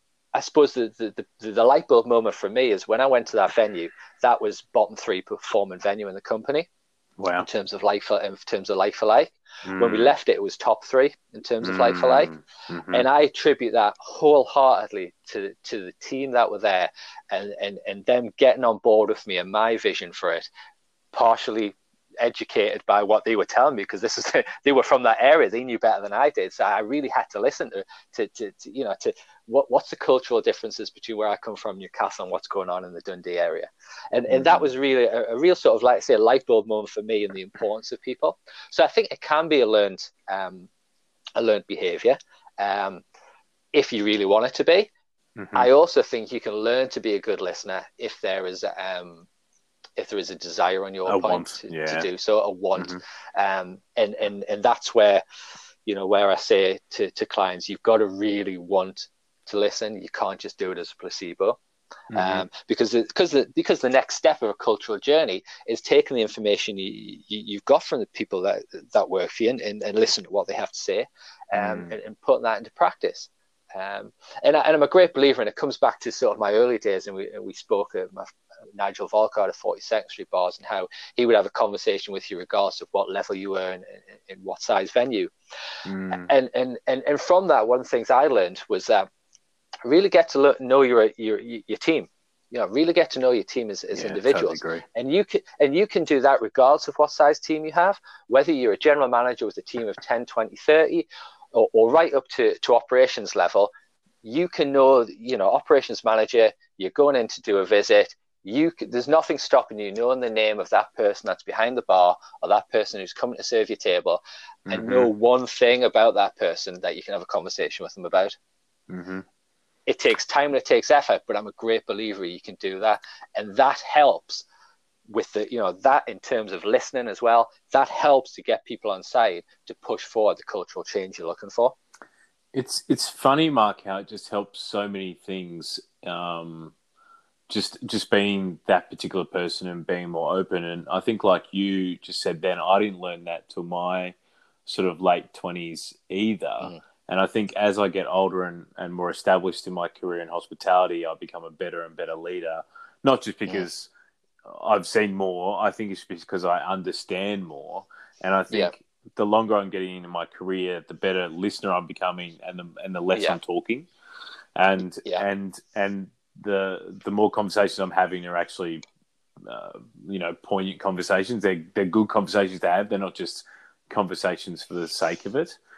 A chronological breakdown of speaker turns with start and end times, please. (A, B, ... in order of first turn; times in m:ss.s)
0:00.3-0:06.7 A
0:07.2-0:07.5 B
0:07.4-0:12.3 A
0:09.6-0:10.1 B
0:11.6-0:13.0 B
0:12.9-0:20.5 A
0:21.1-0:40.7 A
0:34.3-0:34.7 B
0:41.4-0:43.0 A
0:43.7-0:44.9 A
0:45.4-0:45.7 B
0:45.5-0:49.3 A
0:50.0-0:55.2 A
0:51.0-0:52.1 B
0:55.8-1:01.6 A
1:02.1-1:02.4 B
1:02.1-1:25.3 A
1:11.5-1:11.9 B
1:25.8-1:26.3 B
1:26.1-1:29.1 A
1:29.8-1:43.7 A
1:33.9-1:34.8 B
1:44.2-1:58.4 A
1:54.7-1:55.1 B
1:58.9-1:59.2 B
1:59.9-2:04.4 A
2:05.1-2:11.8 A
2:12.5-2:16.7 B
2:17.5-2:24.1 B
2:24.6-2:33.9 B
2:34.4-2:43.9 B
2:44.6-2:48.8 B
2:49.4-2:55.6 B